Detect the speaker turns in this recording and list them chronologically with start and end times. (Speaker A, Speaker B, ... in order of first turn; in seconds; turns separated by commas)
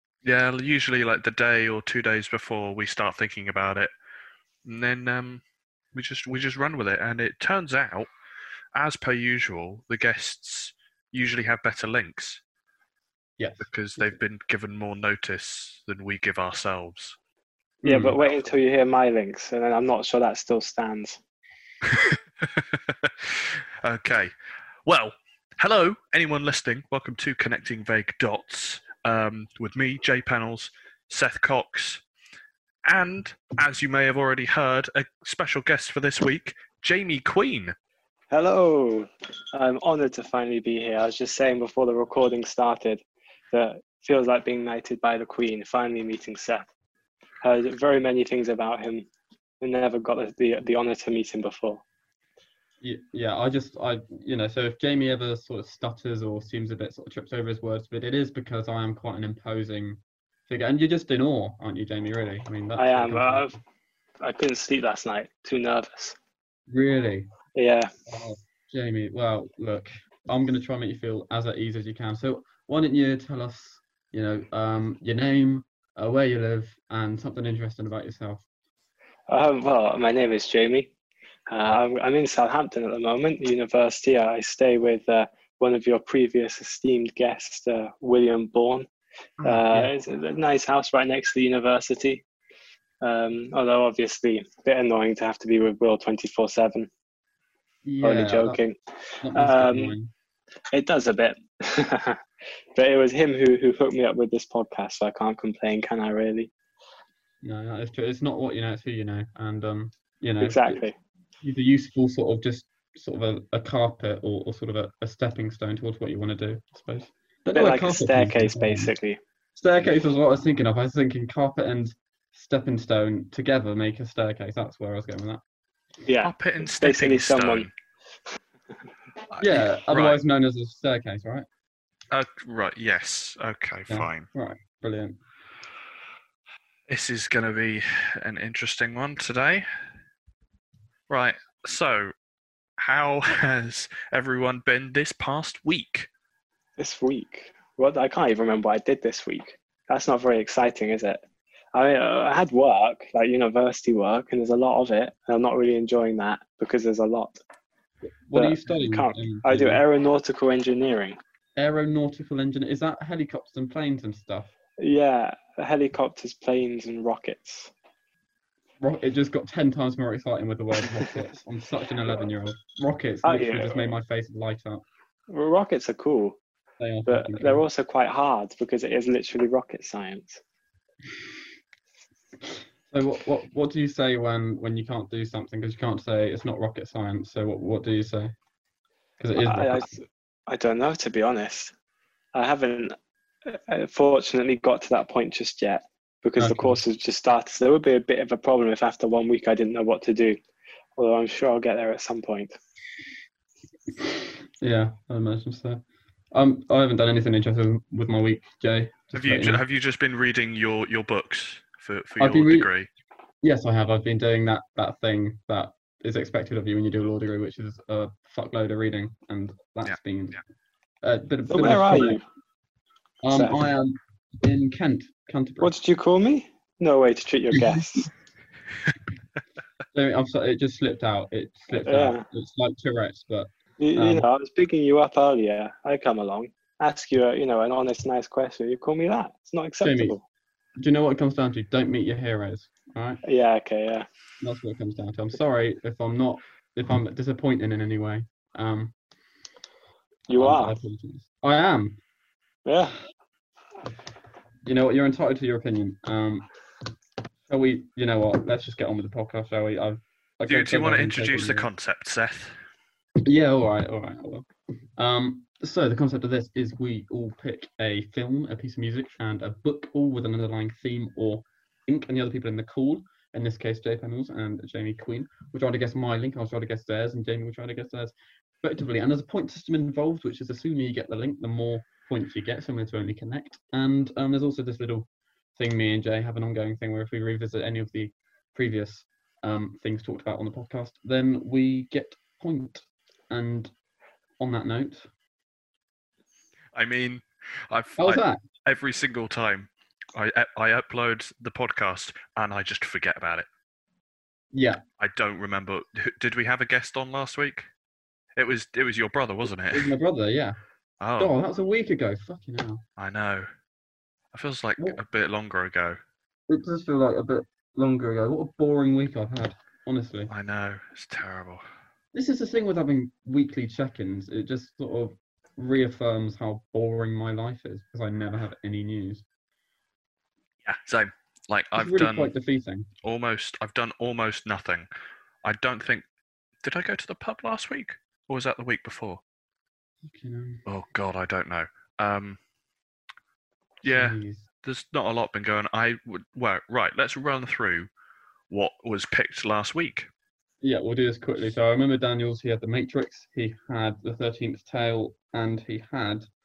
Speaker A: 0.2-3.9, Speaker A: 4.7-5.4, Speaker A: 5.9-8.1, Speaker A: 8.8-12.4, Speaker B: 13.4-14.2, Speaker A: 13.6-17.2, Speaker B: 17.8-18.1, Speaker C: 17.8-21.2, Speaker A: 21.9-24.3, Speaker A: 24.9-32.0, Speaker A: 32.9-37.8, Speaker C: 38.3-46.7, Speaker C: 47.4-49.1, Speaker C: 49.6-51.8, Speaker B: 52.8-63.6, Speaker C: 62.8-63.5, Speaker C: 64.2-66.2, Speaker B: 66.7-67.3, Speaker C: 67.5-67.9, Speaker B: 68.1-78.4, Speaker C: 79.3-80.9, Speaker C: 81.5-88.9, Speaker B: 89.4-89.9, Speaker C: 89.4-92.2, Speaker C: 93.0-96.9, Speaker B: 97.8-98.6, Speaker C: 98.0-100.0, Speaker B: 99.2-100.1, Speaker C: 100.7-102.2, Speaker C: 102.7-106.5, Speaker B: 107.4-110.8, Speaker C: 110.4-110.9, Speaker B: 111.4-118.9, Speaker C: 117.5-119.2, Speaker B: 119.5-125.4, Speaker C: 126.1-127.7, Speaker A: 126.2-127.7, Speaker A: 129.3-130.2, Speaker B: 129.4-131.5, Speaker A: 132.1-134.3, Speaker B: 133.9-135.2, Speaker A: 136.9-139.6, Speaker A: 141.1-142.1, Speaker A: 142.8-146.1, Speaker C: 146.8-151.2, Speaker C: 151.7-157.4, Speaker B: 158.2-159.8, Speaker C: 158.3-161.2, Speaker B: 161.6-164.5, Speaker C: 164.8-167.7, Speaker B: 168.8-174.8, Speaker C: 173.2-173.9, Speaker C: 175.3-176.4, Speaker B: 176.8-177.6, Speaker C: 177.1-180.4, Speaker B: 182.9-188.3, Speaker B: 189.2-189.9, Speaker C: 189.4-191.7, Speaker C: 192.3-200.4, Speaker B: 196.4-196.8, Speaker C: 201.0-202.6, Speaker B: 204.0-209.6, Speaker A: 209.1-212.9, Speaker B: 212.2-212.7, Speaker B: 213.4-220.4, Speaker B: 221.0-222.2, Speaker C: 221.5-222.2, Speaker B: 223.2-225.7, Speaker C: 223.3-223.7, Speaker C: 225.6-228.1, Speaker B: 229.9-234.2, Speaker C: 231.8-232.2, Speaker C: 233.8-240.2, Speaker B: 239.8-240.2, Speaker B: 240.8-243.2, Speaker C: 243.2-244.1, Speaker B: 244.4-248.9, Speaker C: 250.3-250.8, Speaker B: 250.4-252.0, Speaker C: 252.7-252.9, Speaker B: 254.6-256.5, Speaker B: 257.5-261.7, Speaker A: 260.5-262.5, Speaker B: 263.2-264.4, Speaker B: 265.0-293.7, Speaker B: 294.4-295.1, Speaker A: 296.7-303.5, Speaker B: 298.0-298.4, Speaker B: 304.5-304.8, Speaker A: 305.0-307.7, Speaker A: 308.4-309.9, Speaker B: 309.7-310.6, Speaker A: 311.0-311.3, Speaker B: 311.2-312.8, Speaker A: 313.0-313.5, Speaker A: 314.3-316.0, Speaker B: 316.5-320.3, Speaker A: 320.3-321.6, Speaker B: 322.1-329.2, Speaker A: 330.6-332.3, Speaker B: 331.8-332.9, Speaker A: 333.0-334.9, Speaker A: 335.4-336.1, Speaker A: 336.6-339.2, Speaker B: 340.0-340.6, Speaker A: 340.6-342.4, Speaker B: 343.8-344.4, Speaker A: 343.8-347.9, Speaker A: 348.5-350.1, Speaker B: 350.6-356.3